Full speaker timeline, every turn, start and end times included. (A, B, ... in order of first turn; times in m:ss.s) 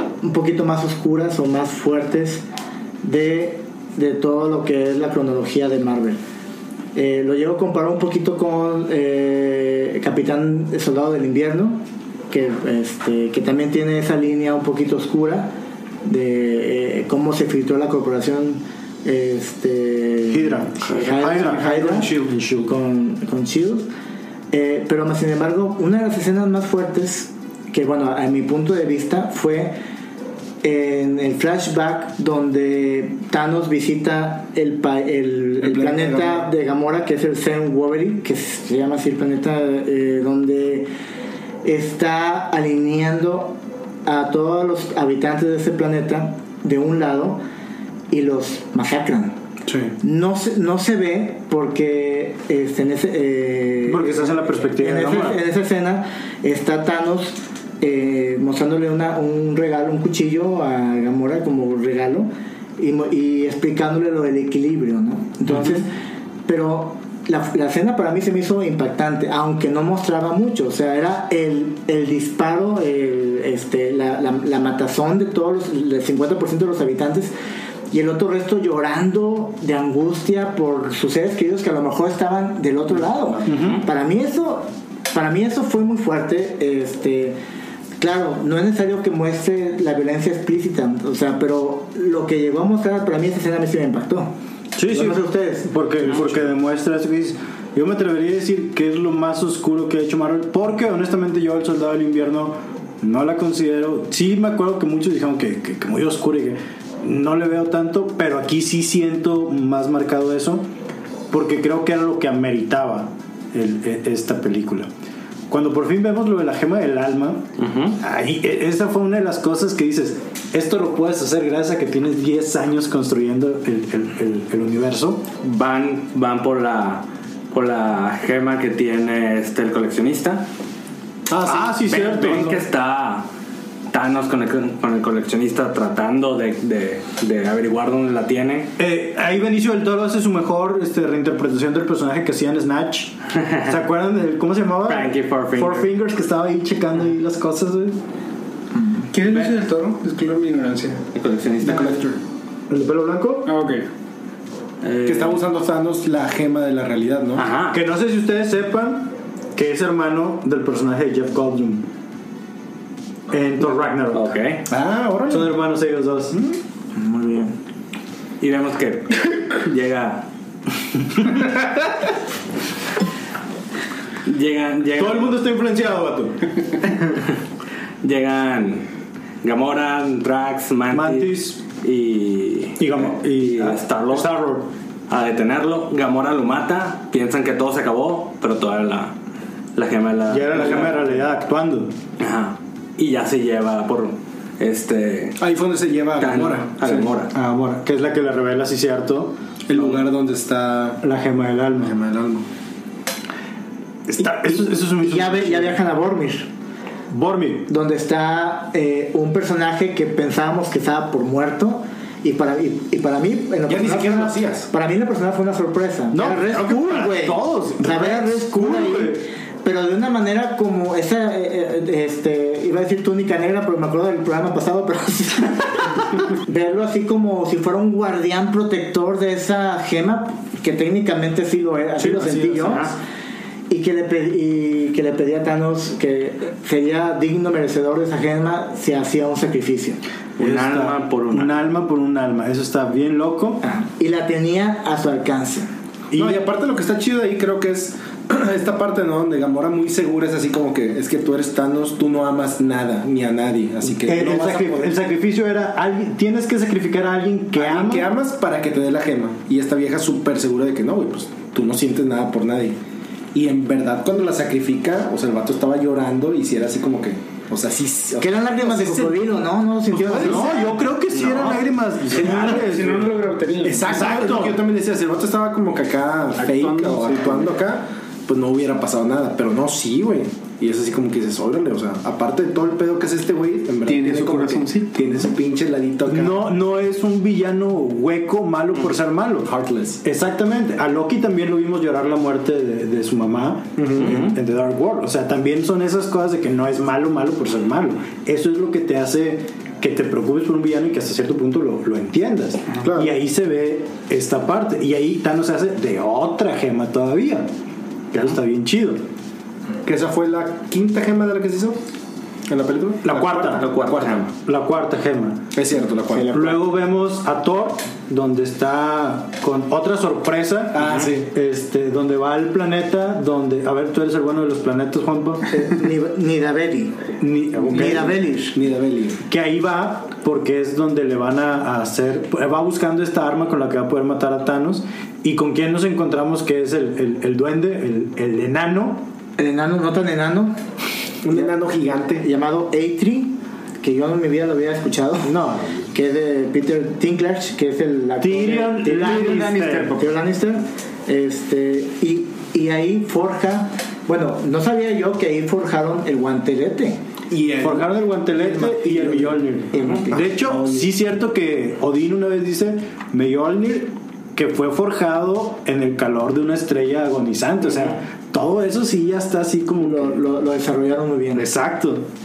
0:00.2-0:02.4 A
0:03.0-0:06.2 A
0:06.9-0:15.5 A
0:16.0-0:23.9 A
0:20.3-0:22.7 B
0:21.4-0:22.3 C
0:24.5-0:29.8 A
0:30.6-0:40.9 A
0:35.6-0:36.4 C
0:41.6-0:47.4 A
0:48.1-0:49.4 A
0:49.6-0:49.9 C
0:50.0-1:05.9 A
0:53.9-0:55.4 B
1:06.5-1:17.3 A
1:17.9-1:27.4 A
1:23.4-1:23.8 B
1:28.0-1:34.3 A
1:34.7-1:50.7 B
1:34.9-1:35.7 A
1:51.3-1:54.9 B
1:55.5-2:05.2 B
1:57.6-1:58.0 D
2:05.4-2:10.5 D
2:11.3-2:12.6 B
2:11.4-2:13.3 D
2:13.9-2:18.7 D
2:18.8-2:28.0 B
2:24.9-2:25.9 D
2:29.1-2:31.0 E
2:31.1-2:32.1 D
2:31.6-2:32.2 C
2:32.7-2:33.5 B
2:33.4-2:33.9 E
2:34.8-2:35.4 D
2:35.0-2:37.4 C
2:37.4-2:37.8 D
2:37.7-2:41.9 B
2:43.3-2:44.3 B
2:44.1-2:44.6 D
2:44.7-2:45.5 C
2:45.3-2:46.4 B
2:46.9-2:47.6 A
2:48.4-2:50.2 D
2:54.2-2:55.3 D
2:54.9-2:56.5 B
2:58.0-2:58.9 D
2:59.4-3:04.3 D
3:00.9-3:01.6 B
3:02.8-3:04.7 B
3:05.1-3:09.1 D
3:09.7-3:11.0 D
3:10.3-3:11.9 B
3:12.2-3:15.4 D
3:15.4-3:17.0 C
3:16.2-3:17.3 D
3:17.3-3:19.4 B
3:19.7-3:21.0 C
3:19.7-3:20.0 D
3:21.0-3:22.0 B
3:21.8-3:22.4 C
3:24.1-3:25.8 B
3:24.5-3:26.5 A
3:27.1-3:27.7 B
3:27.7-3:52.9 A
3:33.7-3:34.7 C
3:36.1-3:39.2 B
3:52.0-3:52.9 B
3:52.6-3:52.9 D
3:53.7-4:00.0 A
4:00.4-4:01.5 D
4:00.4-4:03.6 B
4:03.6-4:05.7 A
4:06.1-4:06.4 B
4:06.1-4:14.9 C
4:14.0-4:18.1 B
4:17.5-4:22.8 C
4:23.3-4:29.3 C
4:28.2-4:30.7 A
4:30.0-4:30.6 C
4:30.0-4:33.2 B
4:31.1-4:31.6 D
4:32.1-4:34.4 E
4:33.6-4:46.5 C
4:33.8-4:34.6 B
4:36.4-4:37.5 E
4:43.9-4:45.0 E
4:46.0-4:49.5 B
4:49.4-4:50.0 C
4:50.0-5:07.5 B
4:53.8-4:54.2 C
4:54.0-4:54.3 D
5:02.8-5:03.1 C
5:08.1-5:09.0 B
5:09.8-5:11.8 C
5:12.5-5:14.2 C
5:13.0-5:13.7 B
5:13.4-5:14.3 D
5:14.4-5:15.4 B
5:15.5-5:16.5 C
5:16.2-5:25.5 B
5:20.7-5:21.3 C
5:25.5-5:27.0 A
5:27.2-5:28.2 B
5:27.6-5:28.6 A
5:27.8-5:29.2 C
5:29.3-5:39.1 B
5:39.4-5:40.6 A
5:41.2-5:42.2 C
5:42.2-5:45.3 A
5:45.2-5:45.9 B
5:45.9-5:57.0 A
5:48.2-5:50.0 B
5:49.1-5:50.0 E
5:57.3-5:57.9 C
5:57.6-6:10.2 B
5:58.4-6:00.8 A
6:09.8-6:11.5 A
6:11.4-6:12.1 B